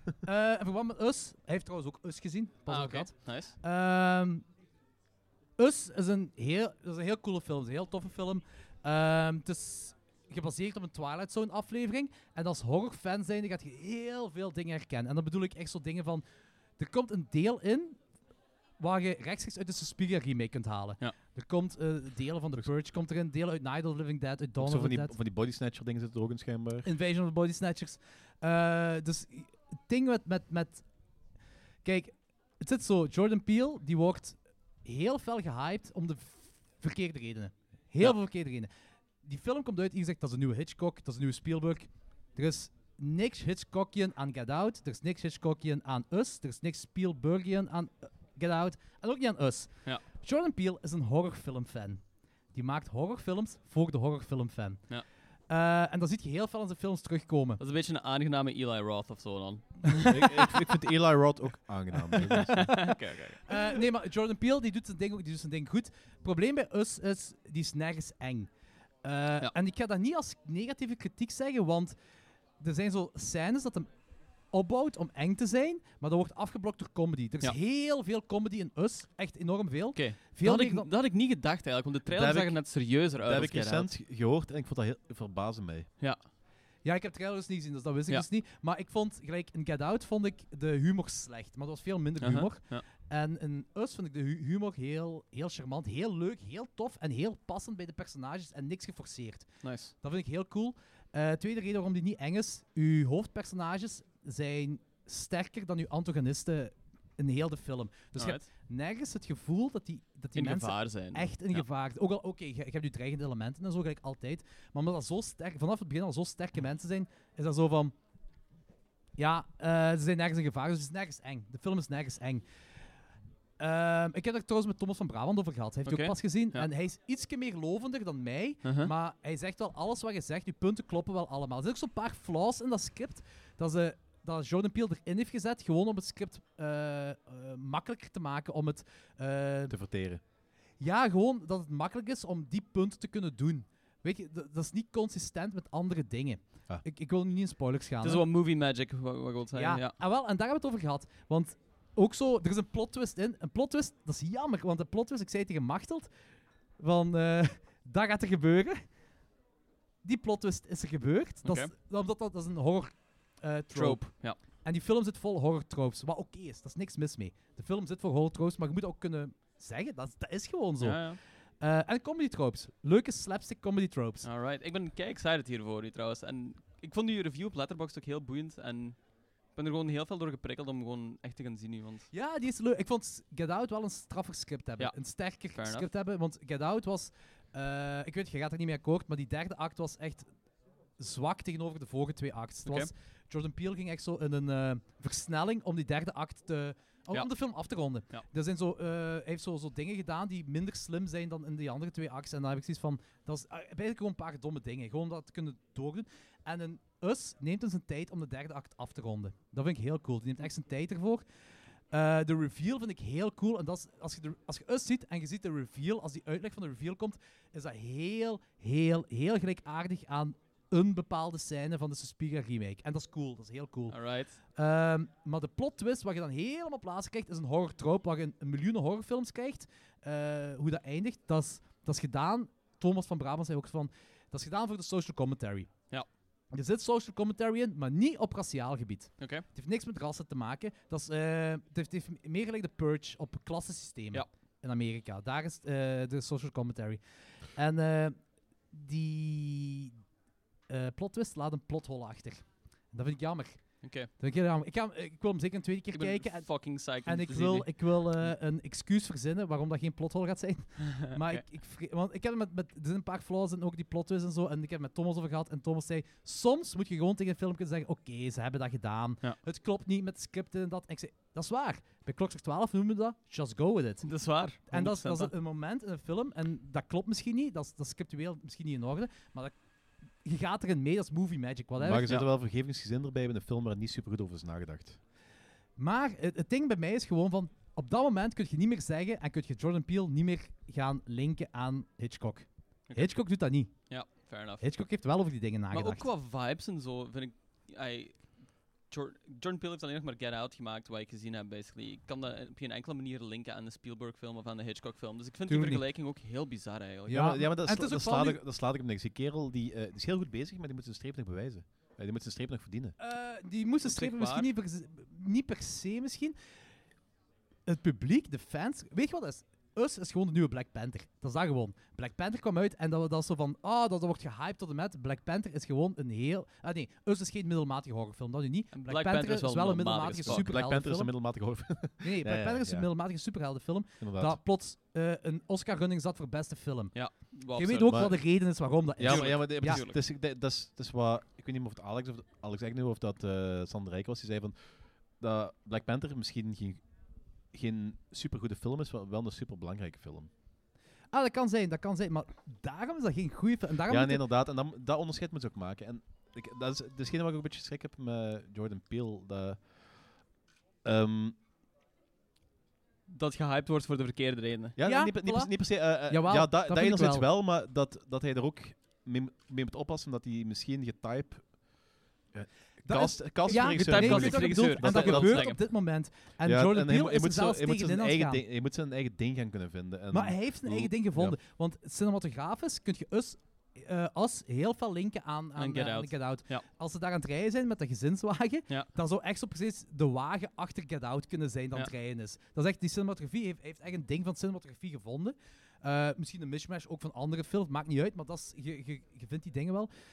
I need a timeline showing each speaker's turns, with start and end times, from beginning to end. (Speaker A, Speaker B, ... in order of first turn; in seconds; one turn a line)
Speaker A: 0.2-4.5
Speaker B: 2.7-3.5
Speaker A: 5.6-16.2
Speaker A: 16.8-18.0
Speaker A: 18.8-25.1
Speaker C: 24.6-26.9
Speaker A: 26.8-30.9
Speaker A: 31.8-38.7
Speaker A: 39.2-52.0
Speaker A: 52.5-54.9
Speaker A: 55.5-57.6
Speaker B: 57.6-60.3
Speaker C: 60.1-62.9
Speaker A: 62.1-63.0
Speaker B: 62.6-63.5
Speaker A: 63.5-68.5
Speaker A: 69.0-72.0
Speaker A: 72.6-73.9
Speaker A: 74.5-80.9
Speaker B: 80.0-83.9
Speaker C: 82.1-85.9
Speaker A: 86.8-99.5
Speaker B: 92.2-92.9
Speaker B: 99.6-99.9
Speaker A: 100.0-117.9
Speaker B: 108.2-108.4
Speaker B: 110.4-111.6
Speaker A: 119.2-122.5
Speaker A: 123.6-139.7
Speaker B: 125.9-126.7
Speaker B: 128.6-128.9
Speaker C: 139.7-140.2
Speaker A: 140.8-148.2
Speaker B: 148.0-149.9
Speaker A: 149.6-156.1
Speaker A: 156.8-158.8
Speaker A: 160.0-174.3
Speaker B: 161.4-161.7
Speaker B: 163.7-164.4
Speaker B: 170.8-171.2
Speaker B: 174.2-179.0
Speaker B: 179.5-182.1
Speaker A: 182.1-190.3
Speaker B: 184.8-185.9
Speaker A: 191.0-211.2
Speaker A: 211.9-224.0
Speaker B: 223.9-224.4
Speaker A: 224.6-235.7
Speaker A: 236.5-248.2
Speaker A: 248.7-249.9
Speaker A: 250.7-274.1
Speaker B: 253.8-254.1
Speaker B: 255.9-258.2
Speaker B: 260.9-261.4
Speaker B: 274.0-275.3
Speaker A: 274.7-279.5
Speaker A: 280.2-282.3
Speaker C: 281.8-285.0
Speaker A: 285.8-293.7
Speaker B: 292.9-293.1
Speaker B: 293.9-294.7
Speaker A: 294.6-296.1
Speaker B: 295.7-298.3
Speaker B: 298.9-307.3
Speaker A: 305.5-305.8
Speaker A: 307.1-308.4
Speaker C: 307.1-312.9
Speaker A: 313.0-316.3
Speaker B: 313.8-314.5
Speaker A: 317.7-331.1
Speaker B: 328.7-330.5
Speaker C: 330.2-332.9
Speaker A: 332.0-339.8
Speaker C: 334.0-334.4
Speaker B: 336.9-338.0
Speaker C: 337.9-338.2
Speaker C: 339.0-346.8
Speaker B: 339.0-340.0
Speaker C: 347.5-350.3
Speaker A: 351.1-354.2
Speaker C: 353.9-359.8
Speaker C: 360.8-361.4
Speaker B: 363.1-364.8
Speaker C: 364.8-375.6
Speaker A: 364.8-367.3
Speaker A: 372.8-378.4
Speaker B: 373.5-375.6
Speaker C: 376.4-381.4
Speaker A: 380.1-399.9
Speaker B: 385.6-386.6